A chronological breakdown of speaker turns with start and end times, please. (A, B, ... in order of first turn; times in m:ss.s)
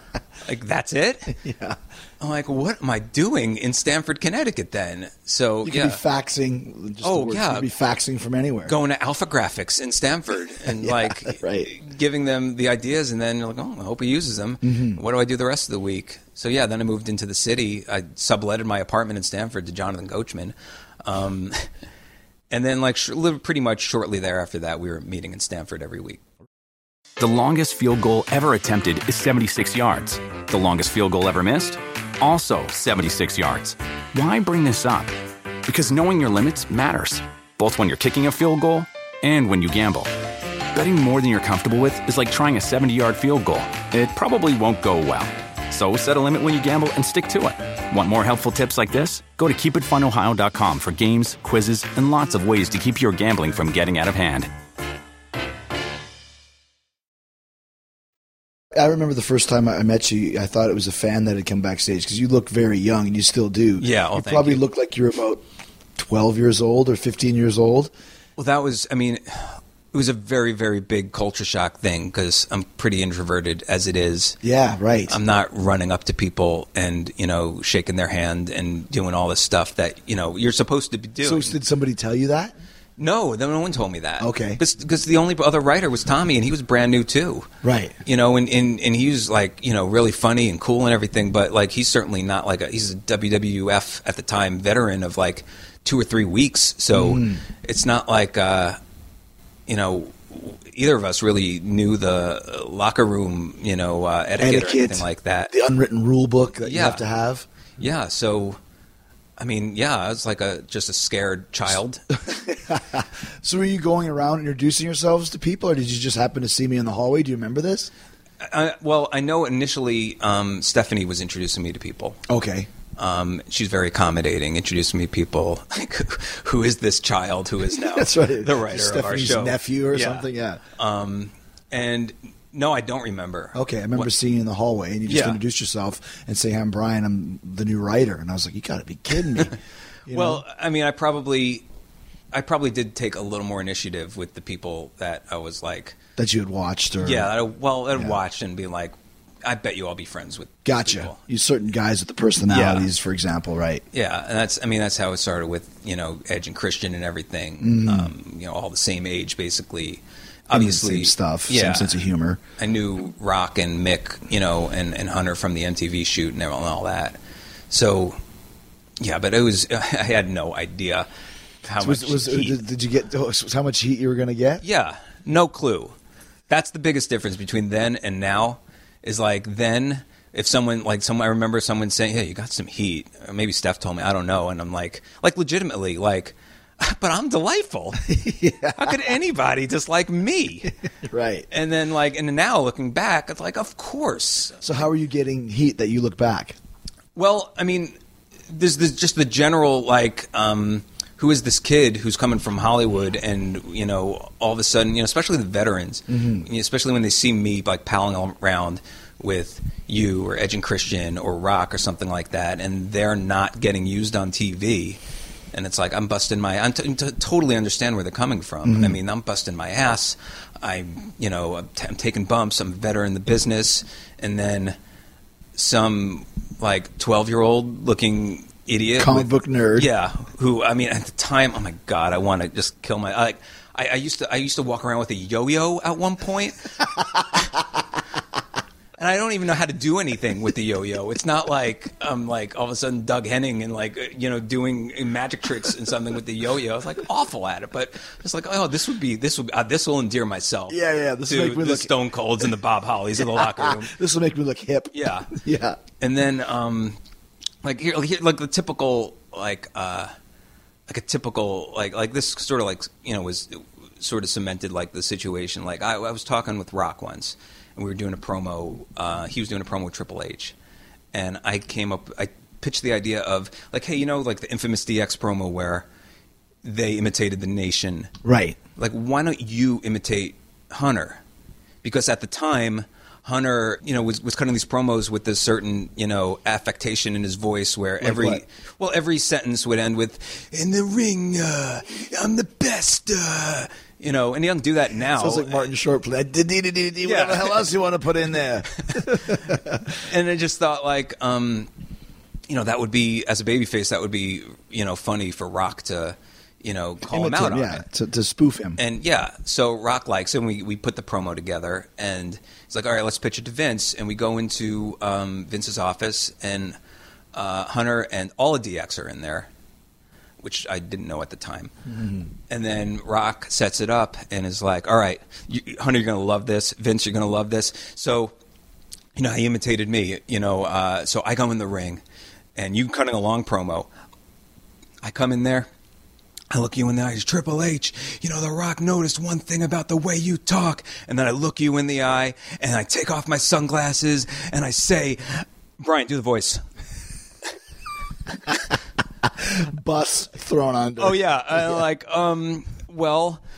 0:00.4-0:01.4 A
0:01.3-0:01.8 B
0:02.2-0:06.0 A
0:05.6-0:08.7 B
0:07.0-0:07.7 A
0:08.7-0:21.7 A
0:10.6-0:11.7 B
0:14.6-0:15.0 B
0:22.5-0:26.2 A
0:27.2-0:35.1 C
0:35.7-0:40.1 C
0:40.7-0:54.5 C
0:58.7-1:05.4 B
1:03.8-1:04.6 A
1:06.0-1:07.9 B
1:08.4-1:14.4 A
1:14.4-1:15.2 B
1:15.1-1:21.6 A
1:21.2-1:22.6 B
1:23.0-1:27.5 A
1:24.2-1:24.6 B
1:27.6-1:28.0 B
1:28.0-1:38.8 A
1:36.9-1:37.4 B
1:39.7-1:45.5 A
1:44.4-1:47.5 B
1:46.6-1:47.0 A
1:47.8-1:48.6 A
1:49.4-1:52.1 A
1:52.3-1:57.9 B
1:58.4-2:02.2 A
2:02.3-2:02.7 B
2:03.0-2:14.1 A
2:07.8-2:10.6 B
2:13.5-2:19.5 B
2:15.1-2:15.4 A
2:20.1-2:20.4 B
2:20.1-2:21.6 A
2:22.3-2:26.0 A
2:26.2-2:27.3 B
2:27.0-2:31.2 A
2:30.6-2:33.8 B
2:32.5-2:32.9 A
2:33.9-2:42.0 A
2:37.6-2:38.1 B
2:40.5-2:42.4 B
2:42.6-2:47.2 A
2:47.7-2:48.2 A
2:49.0-2:51.1 A
2:51.6-2:52.6 A
2:51.8-2:54.6 B
2:54.6-2:55.9 A
2:56.5-3:08.2 A
3:08.0-3:09.1 B
3:08.7-3:10.7 A
3:11.0-3:11.5 B
3:11.5-3:14.8 A
3:14.6-3:16.6 B
3:17.2-3:18.0 A
3:18.5-3:35.0 A
3:26.1-3:26.4 B
3:35.5-3:44.8 A
3:38.6-3:39.0 B
3:45.6-3:56.8 A
3:49.0-3:49.9 B
3:59.0-4:14.0 A
4:10.7-4:11.9 B
4:13.2-4:15.8 B
4:14.9-4:15.3 A
4:16.0-4:17.0 A
4:17.6-4:20.1 A
4:20.9-4:30.5 A
4:31.1-4:35.9 A
4:36.6-4:38.1 A
4:38.2-4:38.6 B
4:38.8-4:41.2 A
4:41.8-4:55.7 A
4:48.0-4:48.4 B
4:55.2-5:00.0 B
4:57.0-4:57.7 A
4:58.8-5:01.7 A
5:02.5-5:07.8 A
5:07.1-5:08.8 B
5:08.8-5:16.8 A
5:17.3-5:19.5 A
5:20.4-5:21.7 A
5:21.9-5:22.3 B
5:22.5-5:28.3 A
5:29.2-5:32.0 A
5:32.6-5:33.9 A
5:35.0-5:35.7 A
5:36.5-5:46.6 A
5:49.2-5:51.8 B
5:51.0-5:53.4 A